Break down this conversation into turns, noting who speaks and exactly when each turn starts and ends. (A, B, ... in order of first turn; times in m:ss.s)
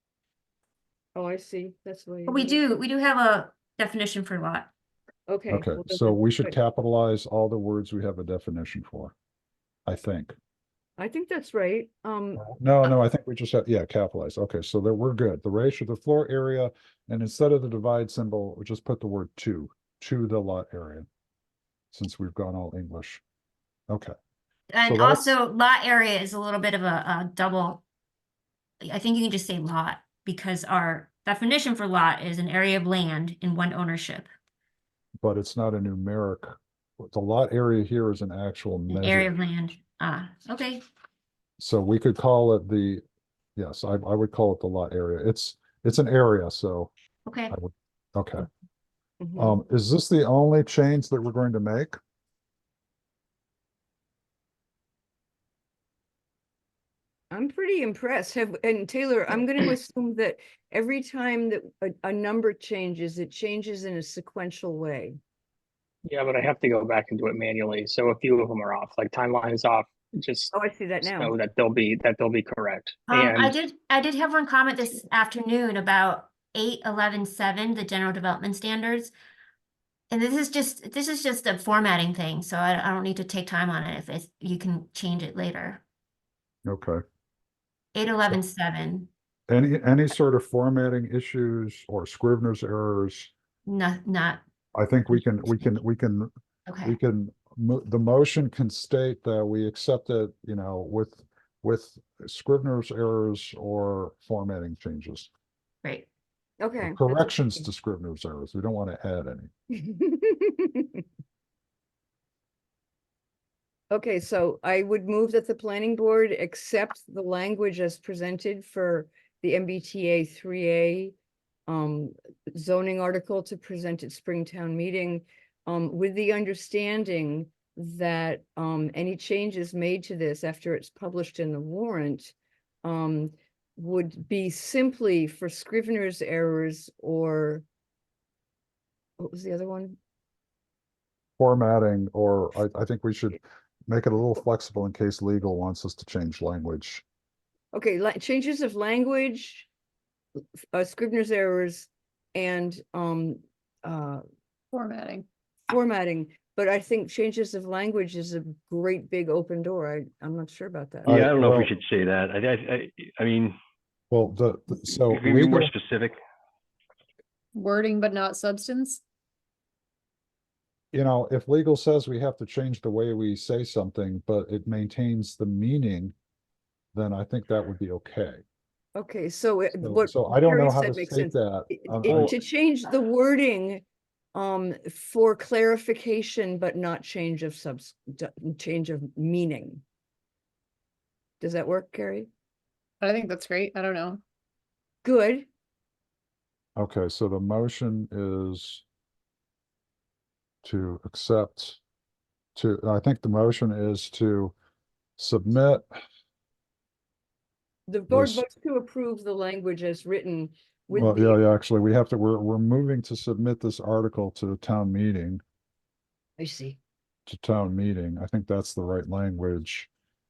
0:01.1-0:02.6 A
0:02.3-0:04.7 B
0:05.3-0:06.5 A
0:05.5-0:09.1 C
0:09.8-0:10.3 C
0:11.0-0:12.4 A
0:12.4-0:21.1 C
0:21.9-0:23.2 C
0:24.7-0:27.8 B
0:24.8-0:25.3 C
0:28.8-0:34.3 B
0:35.2-0:39.3 C
0:38.9-0:40.8 B
0:41.6-0:43.0 C
0:43.6-0:46.9 C
0:47.2-0:47.5 B
0:47.5-0:48.5 C
0:49.2-0:49.6 A
0:49.4-0:52.0 C
0:57.3-1:05.2 A
1:06.0-1:13.6 D
1:10.5-1:11.3 A
1:13.1-1:19.1 B
1:20.1-1:25.8 B
1:26.6-1:27.0 C
1:27.9-1:29.1 B
1:29.5-1:33.3 C
1:33.6-1:34.4 B
1:34.7-1:36.3 C
1:36.7-1:37.0 B
1:36.8-1:45.3 C
1:46.6-1:47.4 A
1:46.8-1:49.5 C
1:49.7-1:51.0 A
1:53.9-2:01.1 A
2:01.7-2:17.6 A
2:19.2-2:20.0 A
2:21.4-2:27.0 C
2:27.7-2:29.7 A
2:30.7-2:34.2 A
2:34.7-2:35.2 E
2:35.7-2:41.1 A
2:41.0-2:41.7 C
2:41.0-2:43.5 F
2:44.1-2:45.7 C
2:45.1-2:46.2 F
2:47.5-2:49.0 E
2:50.9-2:56.1 C
2:56.9-2:58.4 C
2:58.9-3:03.8 A
2:59.8-3:02.3 C
3:04.3-3:09.8 A
3:11.4-3:12.3 A
3:13.0-3:14.2 E
3:15.0-3:15.5 A
3:16.8-3:18.8 C
3:20.6-3:21.8 C
3:22.6-3:24.5 C
3:25.2-3:25.8 C
3:27.9-3:31.4 A
3:28.1-3:28.4 C
3:30.9-3:35.4 C
3:36.4-3:36.8 A
3:37.2-3:39.9 C